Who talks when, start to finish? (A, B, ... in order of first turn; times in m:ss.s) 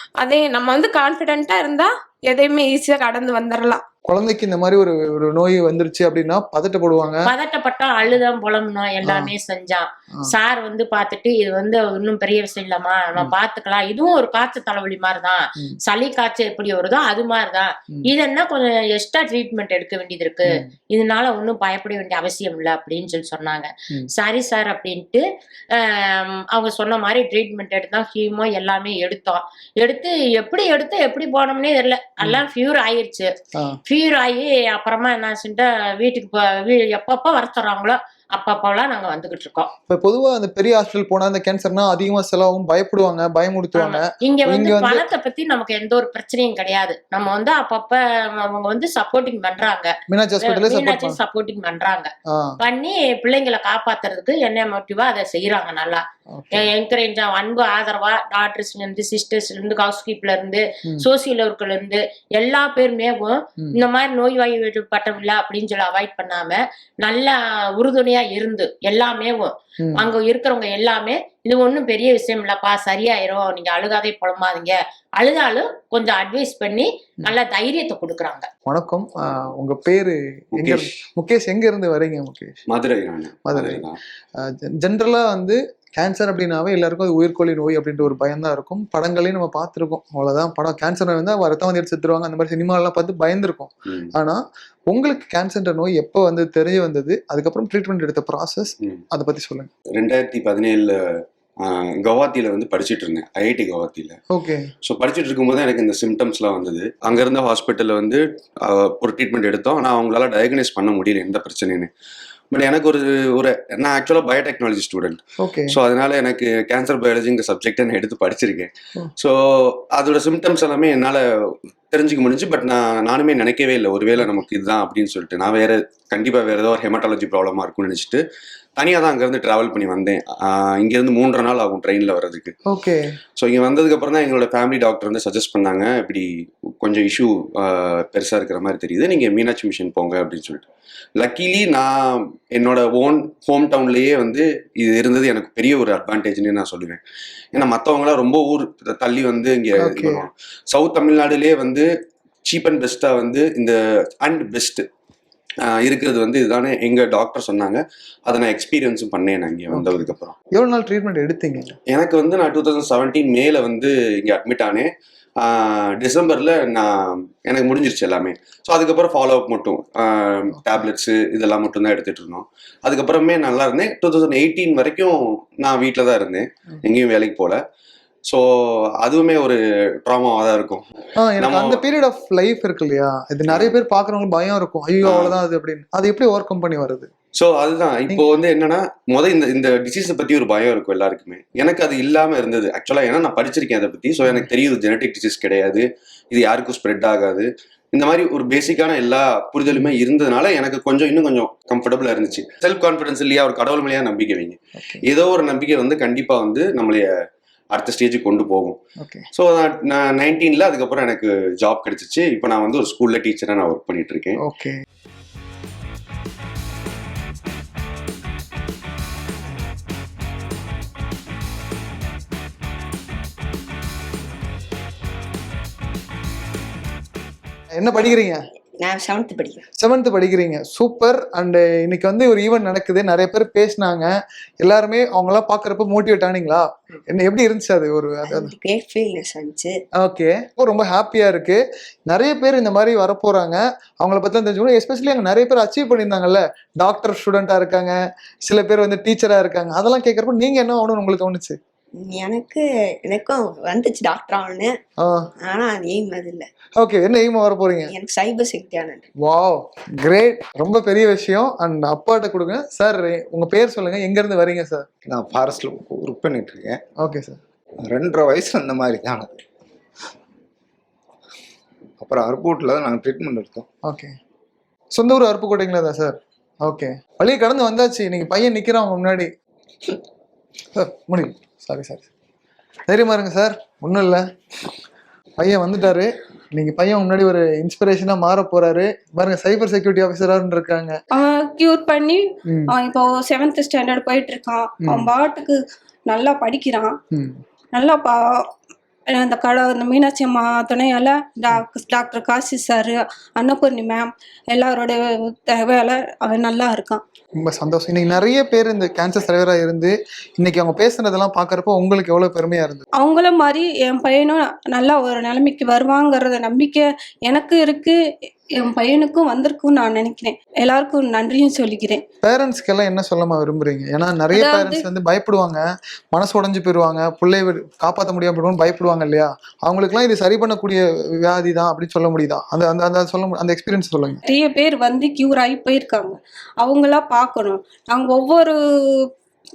0:00.2-0:03.8 A
0:04.0-0:07.3 B
0:07.2-0:33.3 C
0:09.0-0:09.3 B
0:33.5-0:33.8 B
0:33.8-0:39.7 C
0:39.9-0:45.1 B
0:43.8-1:18.5 C
0:50.1-0:51.2 B
0:52.3-0:52.6 B
0:56.3-0:56.7 B
1:09.8-1:10.1 B
1:18.7-1:22.6 B
1:20.6-1:20.9 D
1:22.7-1:24.0 D
1:23.5-1:23.8 B
1:24.4-1:39.7 B
1:39.9-1:44.2 D
1:44.3-1:44.7 B
1:44.8-1:51.9 D
1:52.5-1:55.2 D
1:55.4-1:55.8 B
1:55.7-2:08.2 D
2:08.8-2:12.5 D
2:12.7-2:13.1 B
2:13.4-2:20.6 D
2:21.2-2:27.0 D
2:27.5-2:31.9 D
2:29.8-2:30.2 B
2:32.4-2:34.8 D
2:35.6-2:40.3 D
2:39.7-2:41.8 B
2:41.9-2:57.6 D
2:58.3-3:00.8 D
3:01.2-3:07.1 B
3:01.4-3:01.8 D
3:03.5-3:03.7 D
3:05.0-3:05.4 D
3:07.4-3:27.1 D
3:24.8-3:25.0 B
3:27.7-3:28.8 D
3:29.0-3:29.3 B
3:29.3-3:34.4 D
3:34.4-3:34.8 B
3:47.8-3:48.4 B
3:48.8-3:49.6 E
3:49.8-3:58.5 B
3:58.2-3:59.8 E
4:00.0-4:07.9 B
4:08.4-4:11.6 B
4:12.0-4:14.7 E
4:15.0-4:15.3 B
4:15.4-4:16.5 E
4:16.8-4:17.9 B
4:17.9-4:19.1 E
4:19.2-4:24.9 B
4:25.1-4:26.8 F
4:27.0-4:27.4 B
4:27.8-4:29.4 F
4:32.0-4:33.6 F
4:33.8-4:34.2 B
4:34.9-4:39.3 B
4:40.7-4:42.1 B
4:42.9-4:44.2 B
4:45.4-4:51.0 B
4:51.1-4:57.0 G
4:52.5-4:52.7 B
4:57.1-4:57.4 B
4:57.7-4:58.5 G
4:59.1-5:07.0 G
5:07.4-5:12.8 B
5:13.0-5:18.0 G
5:18.6-5:22.0 G
5:22.2-5:25.6 B
5:24.3-5:24.8 G
5:26.1-5:34.2 B
5:34.3-5:39.0 G